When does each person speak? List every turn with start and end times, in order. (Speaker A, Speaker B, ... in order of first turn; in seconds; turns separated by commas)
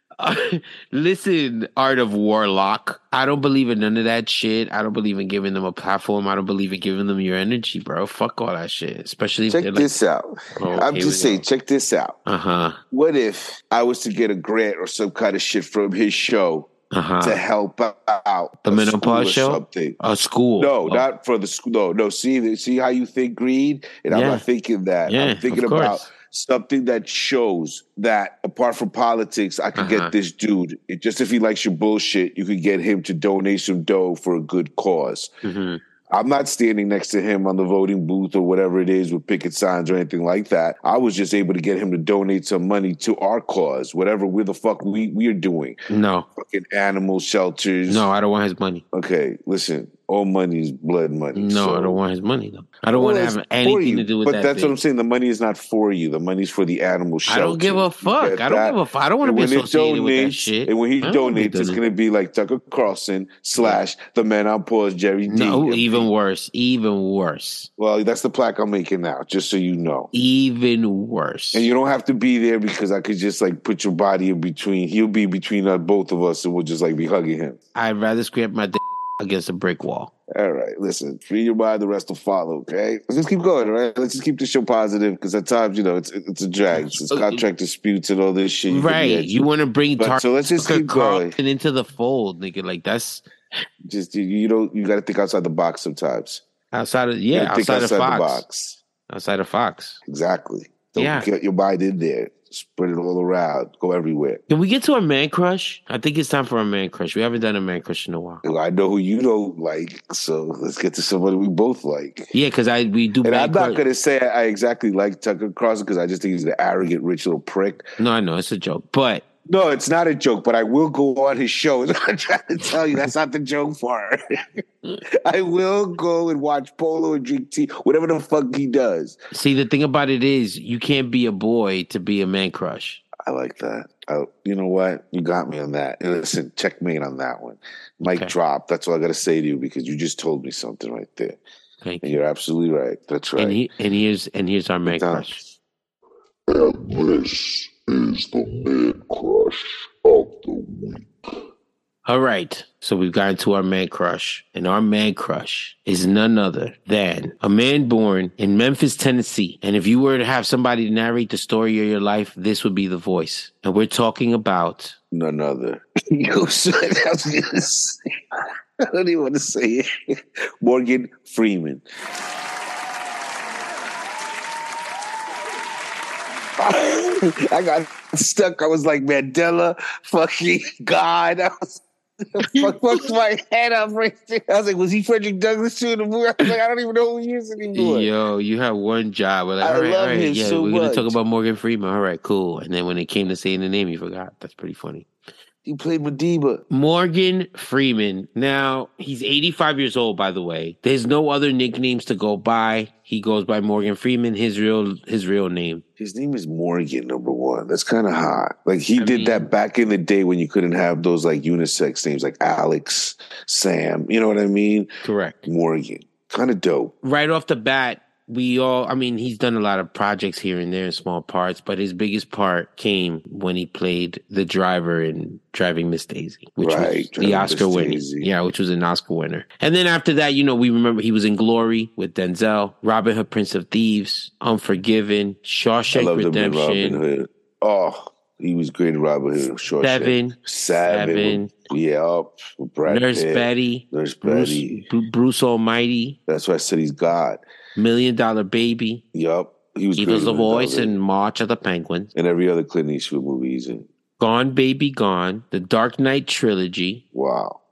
Speaker A: 0.2-9.9, Speaker B: 9.5-12.2, Speaker A: 10.6-11.4, Speaker A: 12.2-12.8, Speaker B: 12.9-16.7, Speaker A: 16.9-17.4, Speaker B: 17.2-20.0, Speaker A: 18.6-21.0, Speaker B: 20.6-35.3, Speaker A: 24.1-24.4, Speaker A: 25.1-26.1, Speaker A: 29.8-30.1, Speaker A: 35.4-35.8, Speaker B: 36.1-45.8, Speaker A: 45.9-46.3, Speaker B: 46.4-48.1, Speaker A: 47.9-48.8, Speaker B: 48.9-52.0, Speaker A: 51.3-54.8, Speaker B: 52.9-66.1, Speaker A: 57.3-61.8, Speaker A: 63.6-63.8, Speaker A: 65.3-67.7, Speaker B: 67.8-70.1, Speaker A: 70.1-71.7, Speaker B: 71.5-77.6, Speaker A: 77.7-80.1, Speaker B: 80.3-89.4, Speaker A: 86.7-87.4, Speaker A: 88.7-93.2, Speaker B: 90.0-91.3, Speaker B: 93.9-96.4, Speaker A: 96.7-98.4, Speaker B: 97.3-98.8, Speaker A: 99.1-100.0, Speaker B: 100.1-104.4, Speaker A: 101.0-101.3, Speaker A: 104.5-108.4, Speaker B: 108.4-112.3, Speaker A: 112.3-113.8, Speaker B: 113.2-117.9, Speaker A: 118.0-119.2, Speaker B: 119.5-124.2, Speaker B: 125.2-129.2, Speaker A: 129.3-133.0, Speaker B: 133.2-141.4, Speaker A: 138.0-138.3, Speaker A: 141.8-142.2, Speaker B: 142.0-143.6, Speaker A: 143.4-145.4, Speaker B: 144.8-145.5, Speaker C: 146.5-151.1, Speaker A: 152.0-164.9, Speaker B: 165.1-168.0, Speaker B: 168.8-169.9, Speaker B: 170.6-171.8, Speaker B: 176.6-181.8, Speaker B: 182.3-188.1, Speaker A: 182.4-182.7, Speaker A: 187.7-195.1, Speaker B: 189.6-191.2, Speaker B: 195.6-196.6, Speaker A: 196.7-205.8, Speaker B: 206.0-214.9, Speaker A: 209.0-209.5, Speaker A: 215.0-215.4, Speaker B: 215.4-216.9, Speaker A: 217.0-237.0, Speaker B: 226.6-228.3, Speaker B: 235.9-244.9, Speaker A: 239.8-241.5, Speaker A: 242.9-246.2, Speaker B: 246.3-247.4, Speaker A: 247.8-249.0, Speaker B: 249.1-250.9, Speaker A: 249.9-252.1, Speaker B: 252.1-253.9, Speaker A: 254.2-257.0, Speaker B: 257.1-257.6